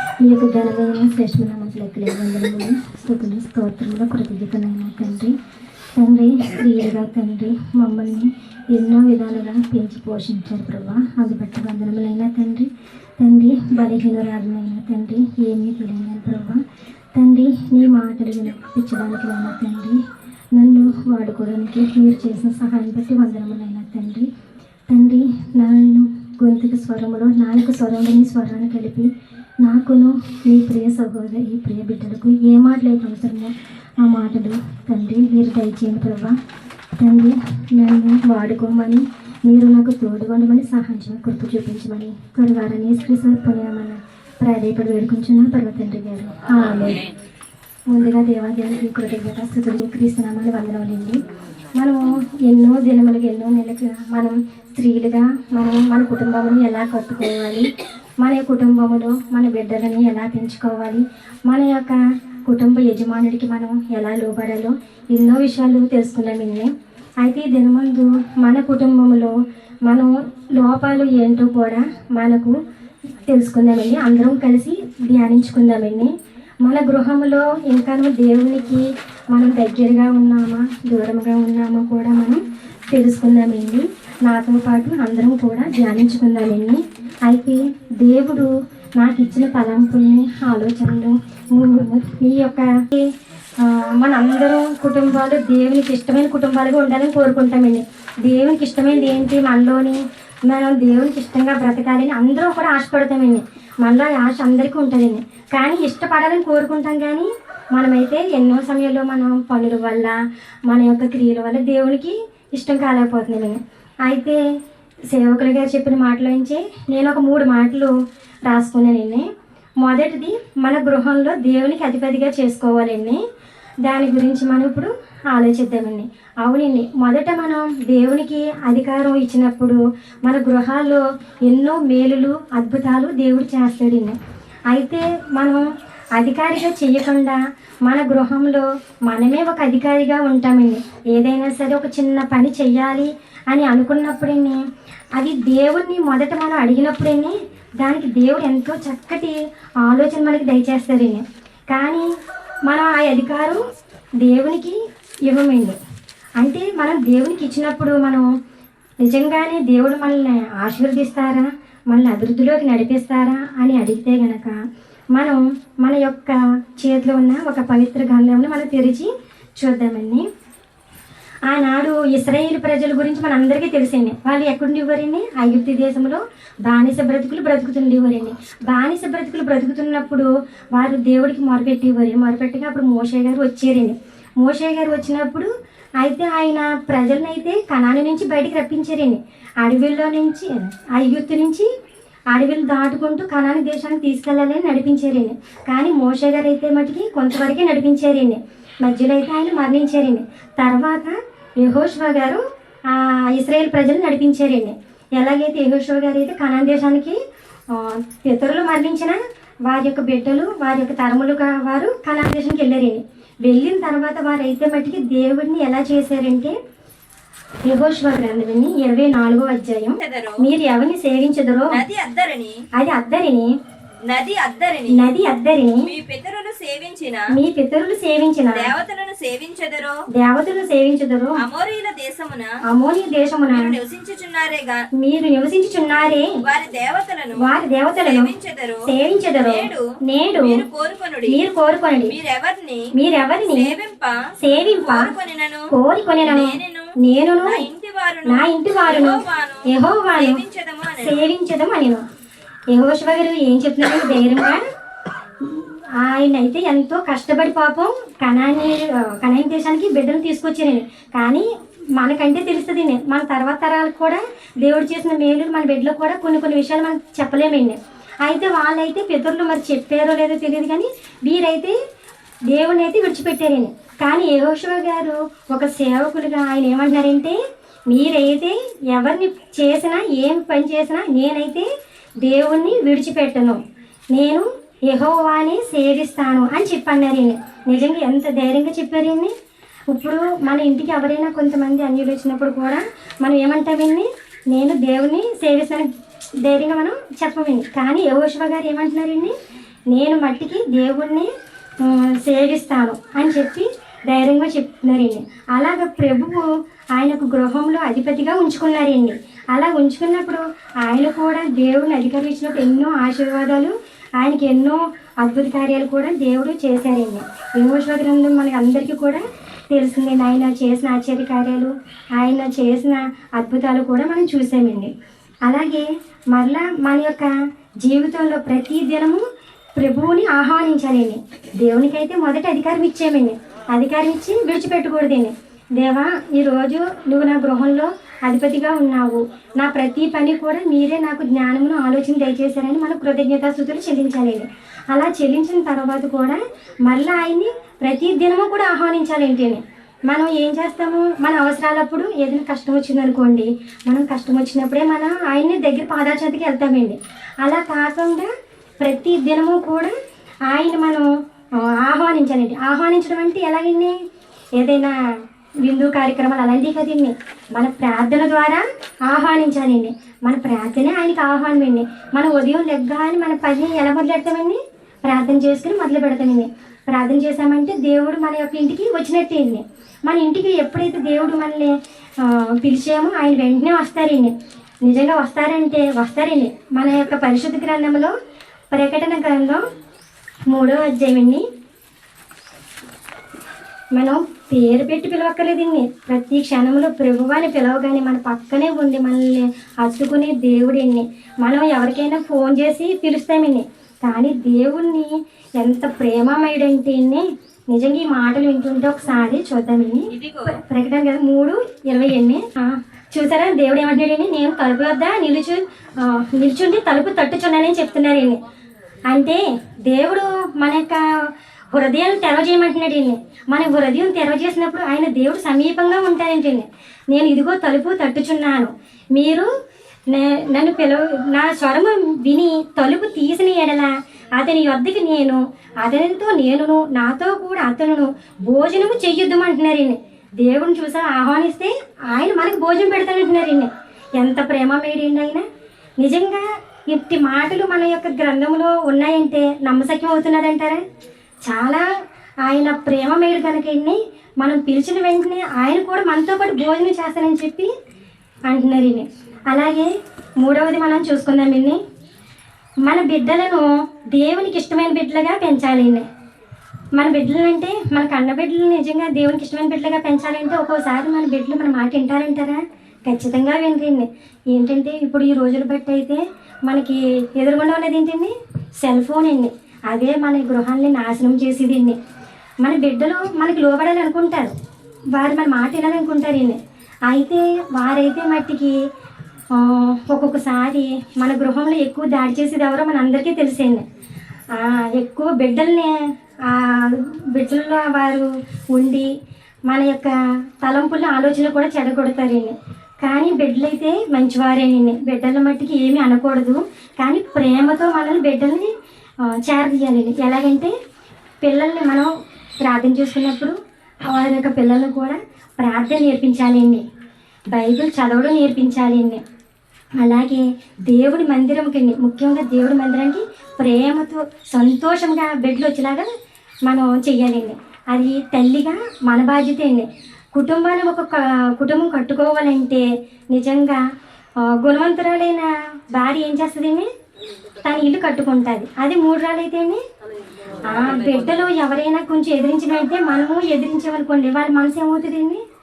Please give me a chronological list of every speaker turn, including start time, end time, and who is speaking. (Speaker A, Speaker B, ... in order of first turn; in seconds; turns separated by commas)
Speaker A: 0.2-5.3, Speaker A: 6.0-16.6, Speaker A: 17.1-20.0, Speaker A: 20.5-24.3, Speaker A: 24.9-29.1, Speaker A: 29.6-36.4, Speaker A: 37.0-47.1, Speaker A: 47.9-51.2, Speaker A: 51.8-57.7, Speaker A: 58.2-69.3, Speaker A: 69.8-72.5, Speaker A: 73.2-76.1, Speaker A: 76.6-114.4, Speaker A: 115.1-117.9, Speaker A: 118.5-119.3, Speaker A: 119.8-123.2, Speaker A: 123.8-134.2, Speaker A: 134.7-135.6, Speaker A: 136.2-144.6, Speaker A: 145.2-152.1, Speaker A: 152.7-153.6, Speaker A: 154.2-155.8, Speaker A: 156.4-158.3, Speaker A: 159.0-164.6, Speaker A: 165.1-170.3, Speaker A: 171.5-191.7, Speaker A: 192.3-207.2, Speaker A: 207.7-216.5, Speaker A: 217.6-221.8, Speaker B: 220.0-220.4, Speaker B: 221.7-222.6, Speaker A: 222.7-223.5, Speaker B: 224.0-225.1, Speaker A: 224.9-225.9, Speaker B: 225.8-227.3, Speaker A: 227.3-228.7, Speaker B: 228.5-230.0, Speaker A: 230.1-231.4, Speaker B: 231.4-232.6, Speaker A: 232.6-233.7, Speaker B: 233.5-234.8, Speaker A: 235.0-236.4, Speaker B: 236.4-238.8, Speaker A: 237.4-238.3, Speaker A: 238.8-240.6, Speaker B: 239.4-241.4, Speaker A: 241.3-242.2, Speaker B: 242.1-242.9, Speaker A: 242.9-243.8, Speaker B: 243.4-245.7, Speaker A: 244.4-245.1, Speaker A: 245.7-247.7, Speaker B: 246.2-251.2, Speaker A: 248.2-252.0, Speaker A: 252.7-254.6, Speaker A: 255.4-271.8, Speaker A: 272.5-281.7, Speaker A: 282.2-283.6, Speaker A: 284.1-289.3, Speaker A: 289.9-295.9, Speaker A: 296.4-299.3, Speaker A: 299.9-324.9, Speaker A: 325.4-329.2, Speaker A: 329.8-358.3, Speaker A: 358.8-359.9, Speaker A: 360.5-361.1, Speaker A: 361.6-364.0, Speaker A: 364.6-364.9, Speaker A: 365.6-384.3, Speaker A: 384.8-388.1, Speaker A: 388.7-389.7, Speaker A: 390.5-391.4, Speaker A: 393.9-418.4, Speaker B: 410.1-410.6, Speaker A: 419.1-429.5, Speaker A: 430.1-445.4, Speaker A: 446.0-450.8, Speaker A: 451.4-451.8, Speaker A: 452.4-457.7, Speaker A: 458.5-459.9, Speaker A: 460.4-461.8, Speaker A: 462.9-466.1, Speaker A: 466.9-482.0, Speaker A: 482.6-484.5, Speaker A: 485.1-488.8, Speaker A: 489.5-493.8, Speaker A: 494.5-495.9, Speaker A: 496.5-499.1, Speaker A: 499.7-508.7, Speaker A: 509.3-510.7, Speaker A: 511.4-512.1, Speaker A: 512.6-516.8, Speaker A: 517.5-519.2, Speaker A: 520.0-526.1, Speaker A: 526.7-533.8, Speaker A: 534.5-536.9, Speaker A: 537.6-539.8, Speaker A: 540.6-545.4